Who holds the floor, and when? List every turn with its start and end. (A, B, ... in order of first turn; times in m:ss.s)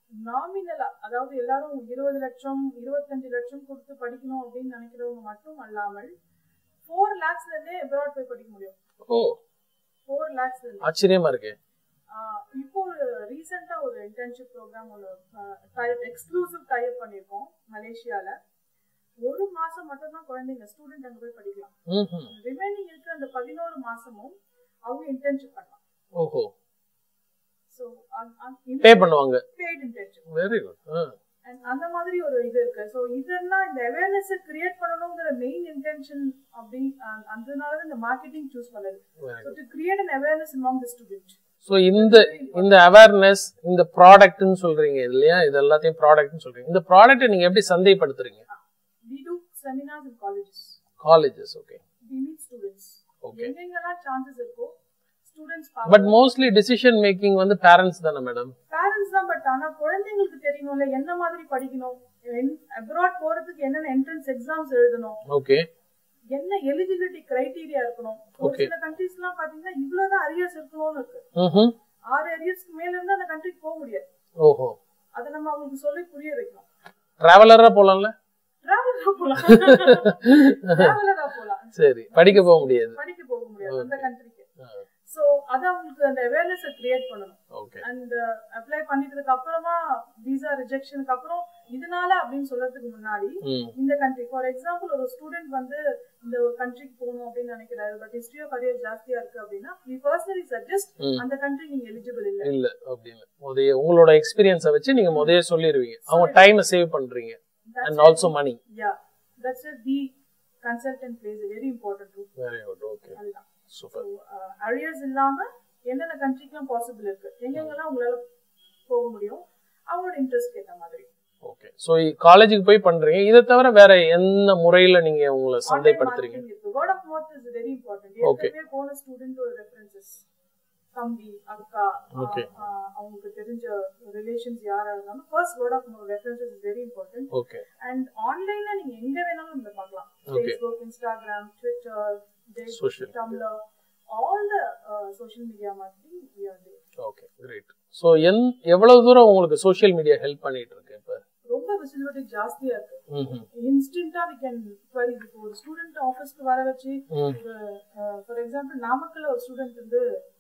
0:00.2-0:06.1 A
0:06.8-0:08.8 A
0:09.1-0:09.4 B
0:10.1-0:10.9 A
0:10.8-0:11.6 B
0:12.1-0:18.4 A
0:19.2-0:24.3 A
0:21.9-0:22.3 B
0:24.9-0:25.8 A
0:26.2-0:26.5 B
0:27.7-0:30.3 A
0:28.8-0:29.4 B
0:30.3-0:31.2 B
0:31.4-0:42.8 A
0:39.2-0:39.6 B
0:41.6-0:48.4 B
0:48.5-0:50.8 A
0:51.0-0:51.8 B
0:52.1-0:54.7 A
0:53.2-0:53.5 B
0:55.2-0:56.2 A
0:55.9-0:58.5 B
0:58.7-1:05.2 A
1:05.3-1:05.7 B
1:06.3-1:11.2 A
1:08.4-1:08.7 B
1:11.4-1:11.7 B
1:12.1-1:14.0 A
1:14.4-1:14.8 B
1:15.2-1:16.7 A
1:17.2-1:18.1 B
1:18.6-1:24.5 A
1:19.5-1:21.0 B
1:21.8-1:23.0 B
1:23.6-1:24.1 B
1:25.1-1:42.5 A
1:27.5-1:27.8 B
1:33.4-1:33.7 B
1:42.4-1:48.6 B
1:45.1-1:45.4 A
1:46.1-1:46.6 A
1:47.7-1:52.3 A
1:52.4-1:53.2 B
1:53.2-1:58.2 A
1:53.7-1:54.0 B
1:58.9-2:01.1 A
2:01.4-2:06.4 B
2:05.7-2:10.2 A
2:08.2-2:08.5 B
2:10.9-2:23.6 A
2:12.1-2:12.5 B
2:17.3-2:17.6 B
2:20.3-2:20.6 B
2:22.7-2:23.2 B
2:24.1-2:26.8 A
2:27.0-2:31.2 B
2:31.5-2:40.0 A
2:33.1-2:33.5 B
2:37.1-2:37.4 B